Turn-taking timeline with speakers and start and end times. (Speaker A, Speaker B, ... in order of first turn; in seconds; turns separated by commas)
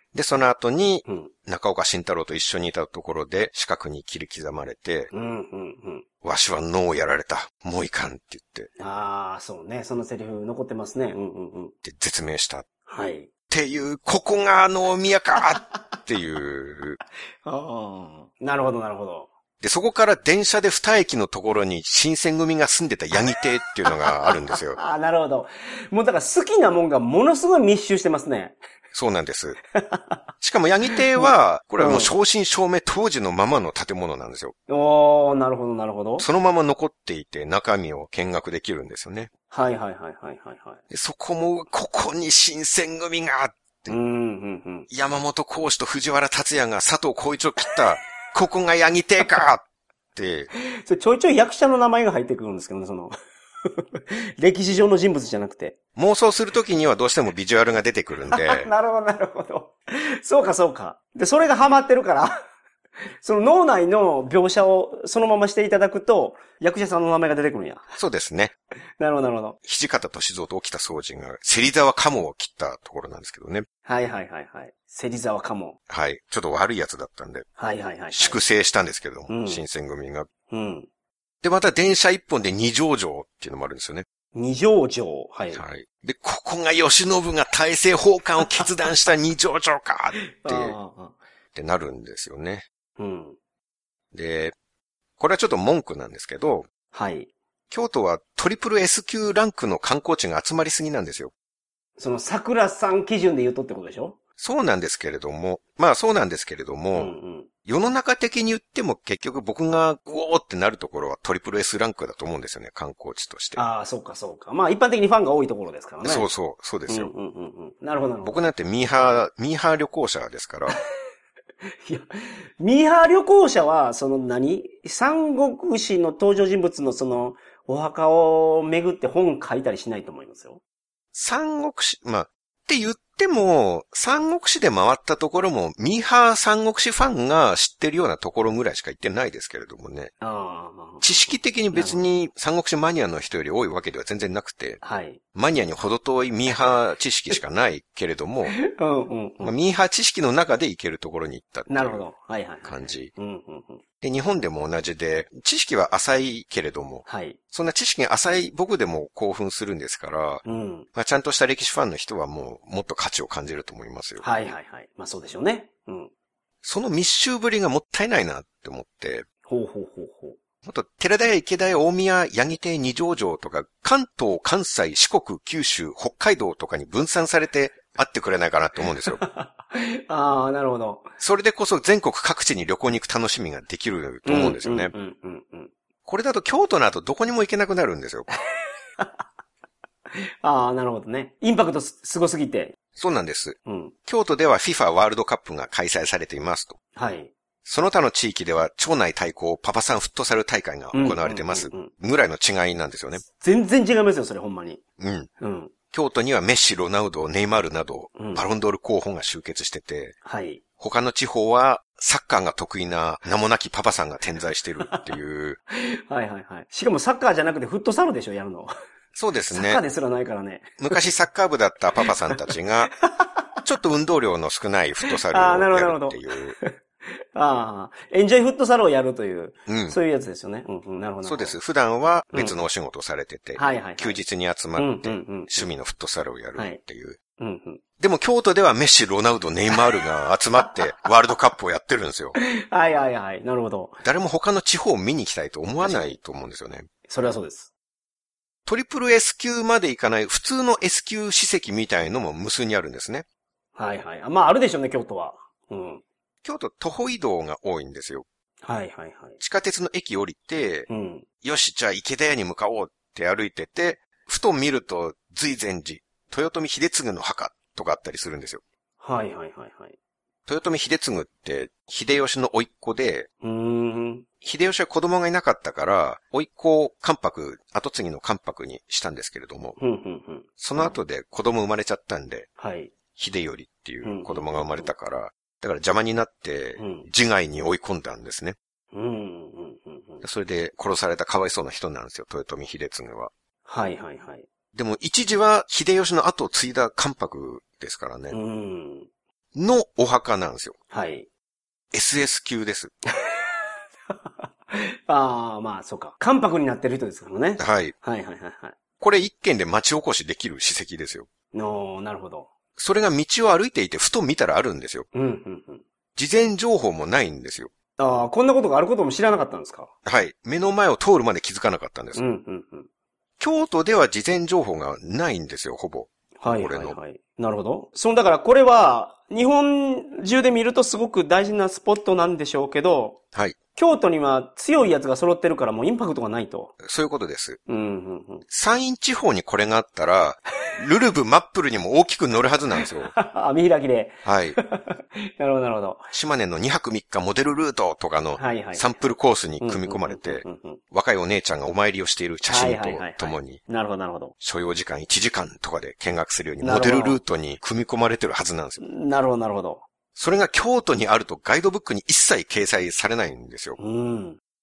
Speaker A: 0.1-5.1, Speaker B: 1.1-1.3, Speaker B: 5.1-6.1, Speaker A: 6.2-8.7, Speaker B: 8.8-11.8, Speaker A: 11.8-12.7, Speaker B: 12.9-13.3, Speaker A: 13.5-17.0, Speaker B: 17.4-19.3, Speaker A: 19.6-24.8, Speaker B: 23.9-28.6, Speaker A: 28.9-29.6, Speaker B: 29.8-30.2, Speaker A: 30.4-34.5, Speaker B: 30.9-32.1, Speaker B: 34.7-36.3, Speaker A: 36.2-39.3, Speaker B: 39.5-40.8, Speaker A: 40.9-44.0, Speaker B: 43.9-44.9, Speaker A: 44.9-49.6, Speaker A: 50.1-50.5, Speaker B: 50.5-53.1, Speaker B: 53.6-55.8, Speaker A: 56.0-58.7, Speaker B: 58.3-62.4, Speaker B: 63.2-67.9, Speaker A: 68.0-68.5, Speaker B: 69.0-69.6, Speaker A: 69.7-73.7, Speaker B: 73.9-75.8, Speaker A: 75.9-77.5, Speaker B: 77.6-78.4, Speaker A: 78.1-80.3, Speaker B: 79.3-79.6, Speaker B: 80.5-80.9, Speaker A: 81.4-84.1, Speaker B: 84.3-85.6, Speaker A: 85.5-90.8, Speaker B: 90.3-91.2, Speaker A: 91.5-92.7, Speaker B: 93.0-93.4, Speaker A: 94.1-94.5, Speaker A: 95.2-96.7, Speaker B: 96.9-97.3, Speaker A: 97.7-101.3, Speaker B: 102.0-104.2, Speaker A: 104.4-113.6, Speaker B: 106.9-107.5, Speaker B: 113.5-116.3, Speaker A: 116.0-117.1, Speaker B: 116.9-118.4, Speaker A: 118.2-120.8, Speaker B: 121.8-122.1, Speaker B: 122.6-130.6, Speaker A: 131.1-140.1, Speaker B: 140.2-142.1, Speaker A: 141.0-144.8, Speaker B: 144.8-145.2, Speaker A: 145.3-148.6, Speaker B: 148.5-149.5, Speaker A: 149.4-152.1, Speaker B: 151.7-153.8, Speaker A: 152.7-153.1, Speaker A: 154.0-160.4, Speaker B: 157.1-157.4, Speaker B: 160.4-160.9, Speaker A: 160.9-164.2, Speaker B: 164.2-166.1, Speaker A: 166.6-169.3, Speaker B: 169.5-170.4, Speaker A: 170.7-179.2, Speaker B: 178.9-181.1, Speaker A: 181.2-184.9, Speaker B: 184.2-185.7, Speaker A: 186.1-188.3, Speaker B: 190.2-192.8, Speaker A: 193.0-196.8, Speaker B: 193.7-193.9, Speaker B: 197.0-197.3, Speaker A: 197.7-203.2, Speaker B: 200.9-201.9, Speaker B: 203.3-204.8, Speaker A: 205.0-205.3, Speaker B: 205.4-205.7, Speaker A: 205.9-210.2, Speaker B: 208.2-208.4, Speaker B: 210.2-210.6, Speaker A: 210.8-215.6, Speaker B: 215.7-218.7, Speaker A: 219.2-219.8, Speaker B: 219.5-221.0, Speaker A: 220.8-222.9, Speaker B: 222.1-222.5, Speaker B: 223.0-223.4, Speaker A: 223.7-226.6, Speaker B: 225.1-226.7, Speaker B: 227.3-231.6, Speaker A: 229.7-230.0, Speaker A: 231.2-237.2, Speaker B: 233.6-234.2, Speaker B: 234.8-235.7, Speaker B: 237.4-237.8, Speaker A: 238.0-242.4, Speaker B: 242.4-244.0, Speaker A: 244.0-246.9, Speaker B: 245.8-246.2, Speaker B: 247.1-247.7, Speaker A: 248.7-253.2, Speaker B: 253.8-256.0, Speaker A: 256.4-258.2, Speaker B: 258.6-259.4, Speaker A: 259.4-260.9, Speaker B: 260.9-261.3, Speaker A: 261.4-268.6, Speaker B: 269.0-270.0, Speaker A: 270.5-273.3, Speaker B: 273.4-274.3, Speaker A: 274.4-279.8, Speaker B: 279.8-281.0, Speaker A: 280.6-282.5, Speaker B: 282.6-282.9, Speaker A: 283.1-288.6, Speaker B: 284.0-284.9, Speaker B: 286.8-287.1, Speaker B: 288.9-290.2, Speaker A: 290.2-293.3, Speaker B: 293.7-294.5, Speaker A: 294.7-298.4, Speaker B: 298.3-299.1, Speaker A: 299.6-300.8, Speaker B: 300.9-301.3, Speaker A: 301.9-302.9, Speaker B: 304.7-308.8, Speaker A: 307.6-307.9, Speaker A: 309.0-311.3, Speaker B: 311.5-312.5, Speaker A: 312.8-315.1, Speaker B: 315.1-315.8, Speaker A: 316.2-317.7, Speaker B: 318.0-319.9, Speaker A: 320.1-322.2, Speaker B: 322.1-322.9, Speaker A: 323.4-327.0, Speaker B: 326.4-333.2, Speaker B: 333.8-336.8, Speaker A: 336.8-337.6, Speaker B: 337.7-338.5, Speaker A: 338.5-343.1, Speaker B: 342.8-346.1, Speaker A: 344.2-344.6, Speaker A: 346.1-353.6, Speaker B: 348.4-349.1, Speaker B: 349.6-350.8, Speaker B: 352.5-354.3, Speaker A: 354.4-358.8, Speaker B: 356.6-357.2, Speaker B: 358.8-359.9, Speaker A: 360.2-363.8, Speaker B: 363.8-364.4